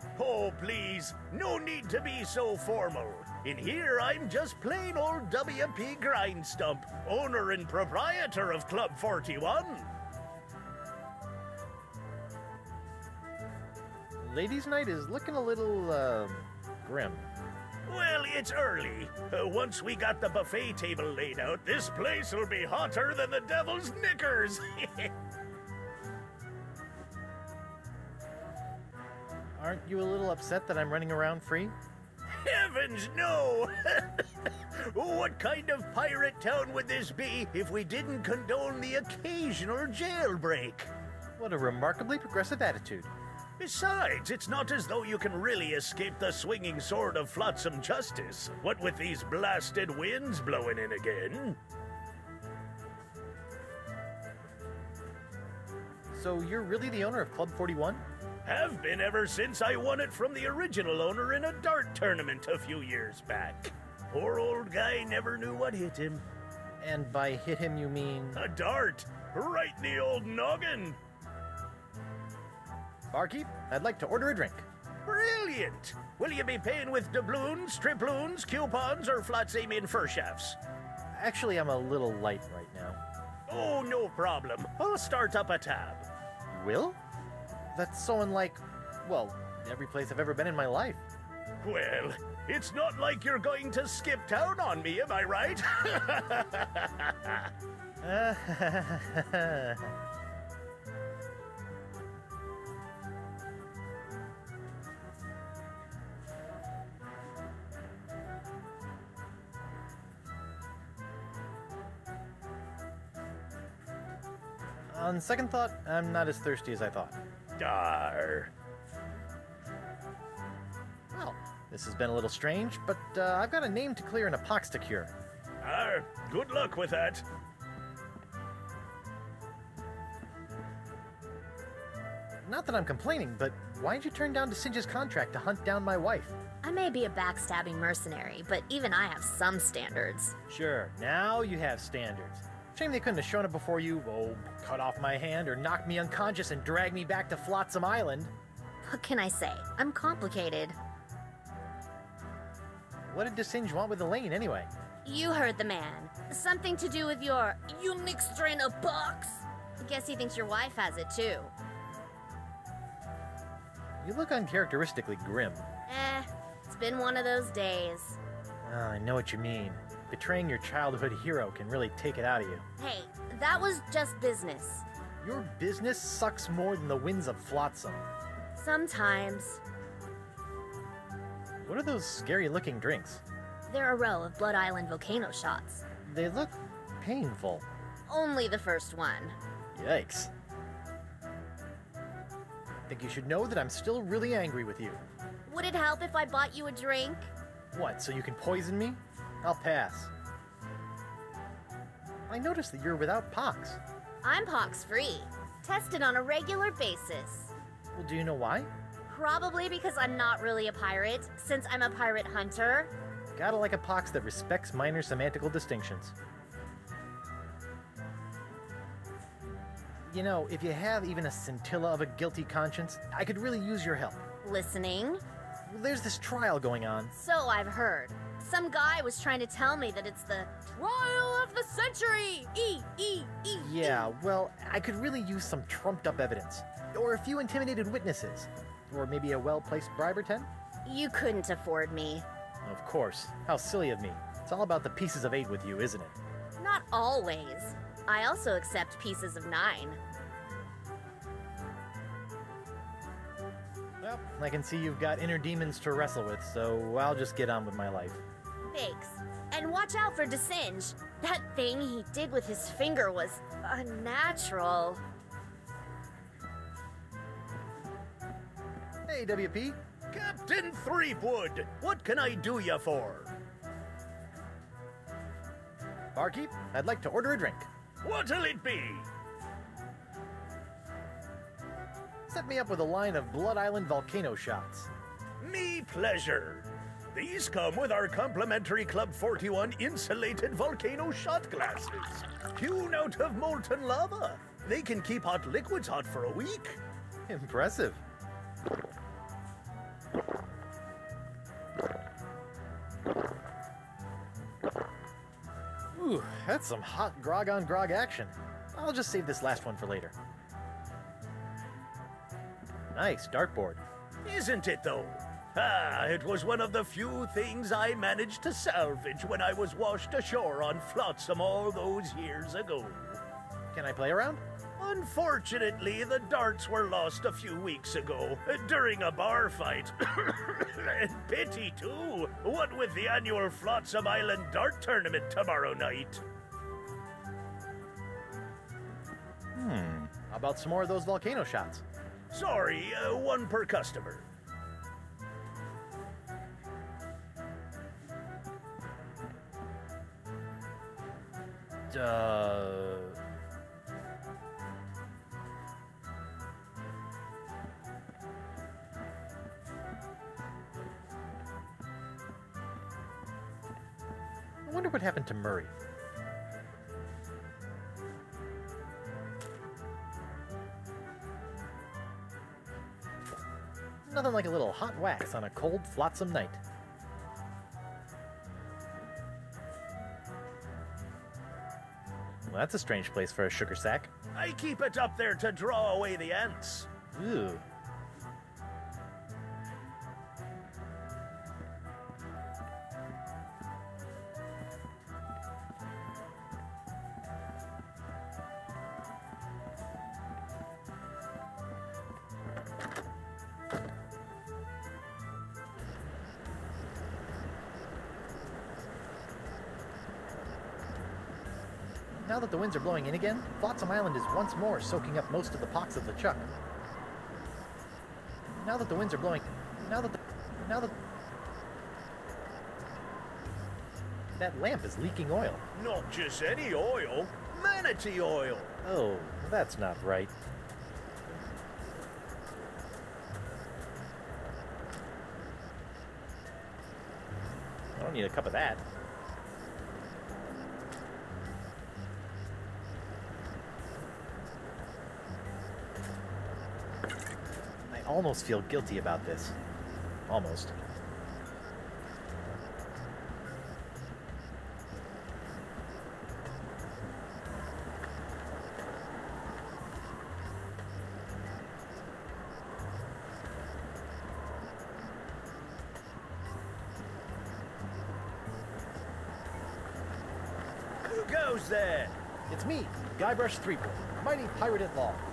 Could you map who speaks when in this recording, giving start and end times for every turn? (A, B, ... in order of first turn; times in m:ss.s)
0:00.2-0:09.9 A
0:14.2-0:17.3 B
0:17.9-0:25.1 A
0:29.6-0:31.8 B
0:32.4-0:40.9 A
0:41.4-0:43.1 B
0:43.6-0:51.6 A
0:56.1-0:58.0 B
0:58.4-1:06.2 A
1:06.8-1:08.4 B
1:08.4-1:11.0 A
1:13.1-1:14.7 B
1:15.1-1:20.6 A
1:21.2-1:23.0 B
1:23.5-1:26.1 A
1:26.5-1:27.0 B
1:27.7-1:31.0 B
1:31.6-1:37.5 A
1:38.0-1:39.9 B
1:54.9-1:57.2 B
1:57.6-1:58.5 A
2:01.1-2:05.1 B
2:05.6-2:07.2 A
2:12.4-2:16.3 B
2:16.6-2:20.4 C
2:20.5-2:28.3 B
2:28.8-2:30.8 C
2:33.1-2:34.7 B
2:35.0-2:41.5 C
2:44.0-2:45.6 B
2:45.9-2:48.2 C
2:48.7-2:52.6 B
2:52.8-2:54.8 C
2:55.2-2:58.0 B
2:58.6-2:59.6 C
3:01.6-3:03.2 B
3:03.7-3:05.8 C
3:06.0-3:07.6 B
3:08.1-3:09.4 C
3:09.8-3:10.3 B
3:12.9-3:15.0 B
3:15.5-3:17.3 C
3:17.7-3:20.1 B
3:22.3-3:23.8 B
3:24.2-3:27.5 C
3:28.0-3:28.7 B
3:29.1-3:32.9 C
3:33.4-3:36.1 B
3:40.1-3:44.2 B
3:44.4-3:45.2 C
3:45.7-3:47.1 B
3:47.1-3:54.1 C
3:53.6-4:00.5 B
4:00.8-4:02.3 C
4:02.6-4:06.1 B
4:06.6-4:10.0 C
4:14.0-4:18.2 B
4:18.7-4:25.0 C
4:29.1-4:29.8 B
4:30.1-4:33.3 A
4:36.2-4:37.7 B
4:38.0-4:39.1 A
4:42.3-4:44.9 B
4:45.4-4:56.8 A
4:57.3-4:58.0 B
5:05.9-5:10.1 B
5:12.9-5:13.8 B
5:14.2-5:23.2 A
5:23.7-5:24.4 B
5:24.8-5:36.2 A
5:39.6-5:41.8 B
5:42.3-5:44.3 A
5:51.9-5:53.2 B
6:04.6-6:05.7 B
6:14.1-6:16.6 B
6:22.5-6:24.1 B
6:24.4-6:26.9 A
6:27.1-6:27.6 B
6:52.2-6:56.5 B
6:58.6-7:01.0 B
7:04.4-7:05.6 B
7:05.8-7:08.7 A
7:08.8-7:10.3 B
7:18.0-7:18.8 B
7:27.9-7:29.6 B
7:30.3-7:30.8 B
7:51.0-7:52.2 A
7:52.5-7:55.2 B